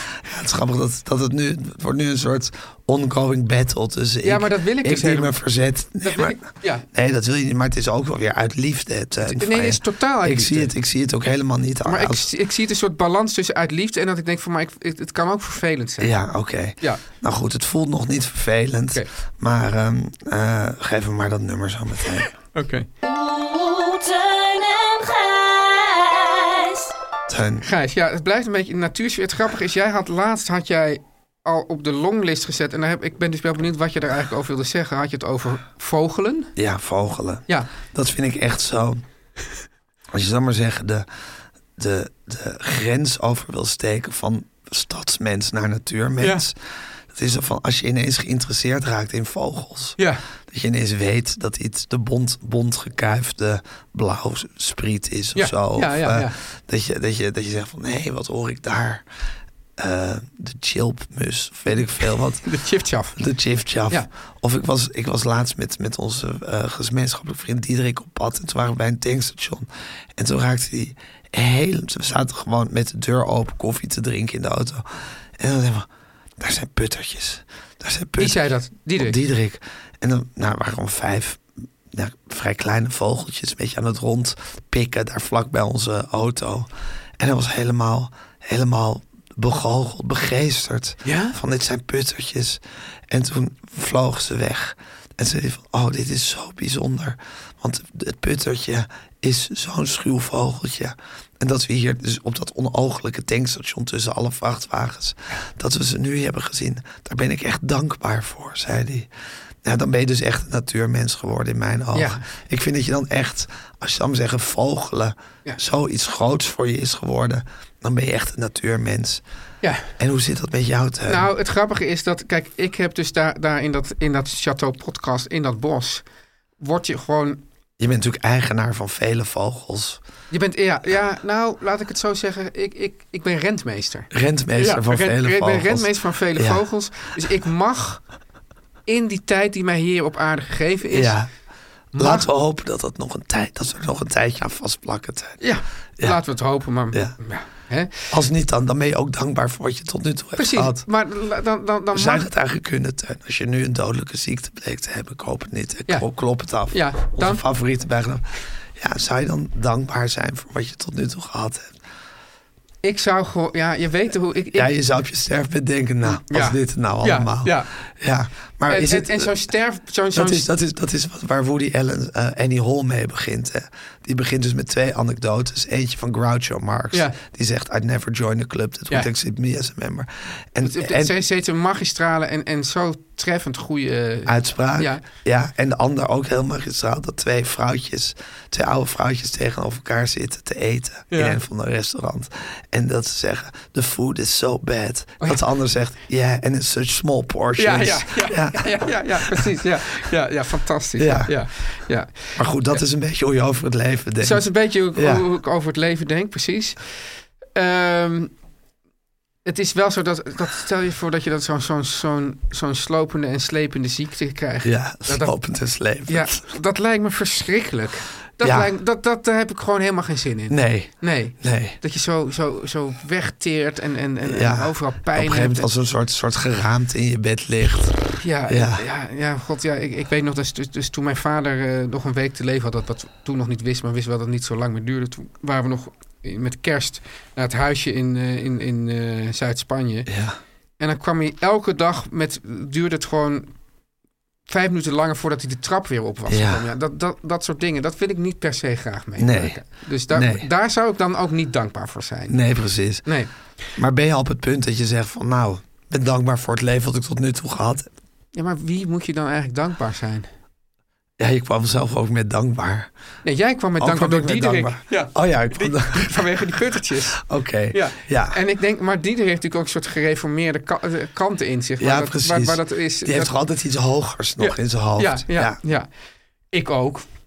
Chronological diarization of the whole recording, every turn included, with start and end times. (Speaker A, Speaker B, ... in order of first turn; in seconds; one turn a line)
Speaker A: 0.2-6.4
Speaker B: 4.2-5.3
Speaker B: 6.0-6.8
Speaker A: 6.9-12.3
Speaker B: 9.2-10.7
Speaker B: 11.9-16.1
Speaker A: 16.0-22.3
Speaker B: 22.5-22.9
Speaker C: 23.1-26.0
Speaker A: 27.3-27.6
Speaker B: 27.6-36.5
Speaker A: 36.6-39.0
Speaker A: 40.1-41.1
Speaker A: 41.8-46.6
Speaker A: 47.1-50.0
Speaker A: 50.5-59.0
Speaker B: 55.4-56.4
Speaker A: 59.8-62.5
Speaker B: 62.4-63.2
Speaker A: 63.1-75.9
Speaker A: 76.4-109.1
Speaker B: 78.2-79.2
Speaker B: 91.0-91.4
Speaker A: 109.6-119.2
Speaker B: 111.9-112.2
Speaker B: 119.6-119.9
Speaker A: 120.0-121.3
Speaker B: 121.1-126.0
Speaker B: 126.6-127.4
Speaker A: 127.8-130.0
Speaker B: 130.3-138.0
Speaker A: 134.1-136.6
Speaker B: 138.9-141.2
Speaker A: 140.9-141.3
Speaker B: 141.9-142.3
Speaker A: 141.9-145.4
Speaker B: 145.4-148.1
Speaker A: 148.1-150.8
Speaker B: 150.4-152.3
Speaker A: 151.9-158.2
Speaker B: 156.7-157.4
Speaker A: 158.8-161.7
Speaker B: 162.8-164.7
Speaker A: 164.5-169.4
Speaker B: 166.1-167.7
Speaker B: 168.7-170.5
Speaker A: 170.1-181.1
Speaker B: 176.9-177.2
Speaker B: 180.6-185.0
Speaker A: 184.3-199.5
Speaker B: 191.1-191.4
Speaker B: 197.6-202.8
Speaker A: 201.0-201.3
Speaker A: 202.4-205.2
Speaker B: 204.2-206.8
Speaker B: 207.5-208.3
Speaker B: 209.4-215.3
Speaker A: 214.6-216.4
Speaker B: 216.1-225.7
Speaker A: 218.4-218.7
Speaker A: 220.5-221.8
Speaker A: 224.2-227.9
Speaker B: 228.2-240.1
Speaker A: 228.5-228.8
Speaker A: 240.1-240.4
Speaker B: 240.8-243.5
Speaker B: 244.5-252.4
Speaker A: 246.3-246.6
Speaker A: 249.2-250.4
Speaker A: 252.3-253.1
Speaker B: 253.0-253.3
Speaker A: 253.8-257.9
Speaker B: 258.3-260.3
Speaker A: 261.2-262.9
Speaker B: 263.2-273.4
Speaker A: 263.8-268.4
Speaker A: 271.8-275.6
Speaker B: 274.4-275.9
Speaker B: 276.5-277.0